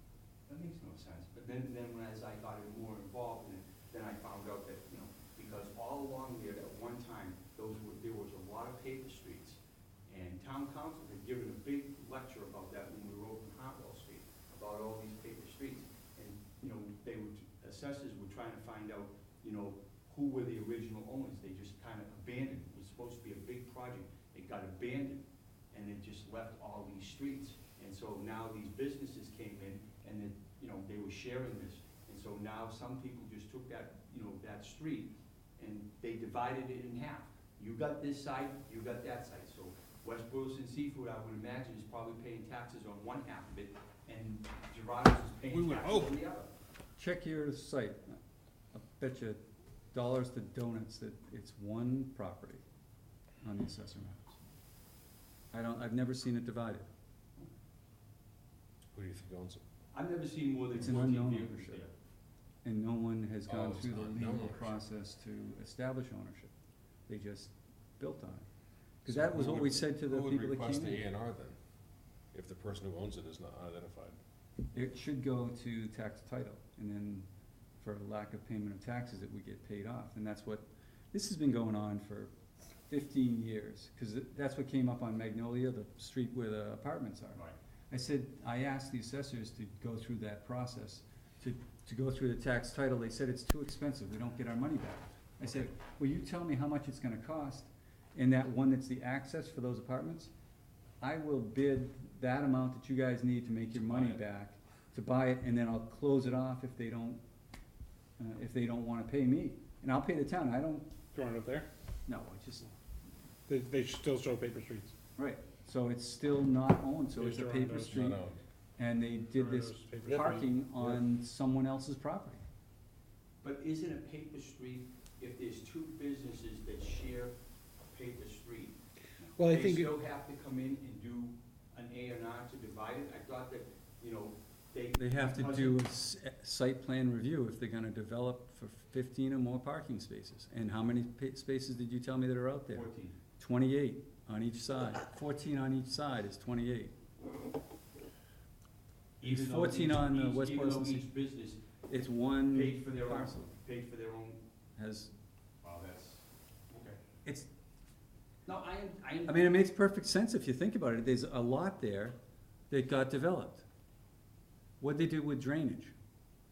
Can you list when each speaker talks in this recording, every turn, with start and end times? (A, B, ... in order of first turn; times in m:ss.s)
0:00.5-0:46.5 A
0:45.5-0:46.0 B
0:45.7-0:46.1 C
0:47.0-0:48.2 D
0:48.7-0:49.4 D
0:49.9-0:52.6 D
0:53.4-0:54.4 D
0:55.5-0:56.9 D
0:58.9-0:59.6 C
0:59.9-1:01.9 A
1:00.8-1:01.8 D
1:02.6-1:06.5 D
1:03.4-1:04.8 C
1:07.1-1:08.4 D
1:09.0-1:11.0 D
1:09.1-1:11.6 C
1:12.3-1:14.2 C
1:14.7-1:17.3 D
1:17.8-1:22.3 D
1:22.9-1:40.3 D
1:41.0-1:47.2 D
1:43.9-1:44.2 B
1:48.2-1:50.9 D
1:51.1-1:51.7 B
1:52.1-1:52.7 D
1:53.5-1:54.9 B
1:55.2-1:58.2 D
1:57.2-1:58.1 B
1:57.7-1:58.4 C
1:58.8-2:02.4 D
1:59.3-2:01.0 B
2:03.4-2:07.4 A
2:07.9-2:15.8 A
2:09.4-2:09.9 B
2:15.0-2:26.9 D
2:22.7-2:23.2 A
2:29.2-2:31.7 A
2:29.2-2:31.1 D
2:31.9-2:33.5 D
2:32.5-2:34.4 A
2:34.8-2:35.1 D
2:35.6-2:37.0 A
2:38.4-2:39.5 A
2:39.3-2:42.2 D
2:42.7-2:43.6 D
2:44.8-2:45.9 D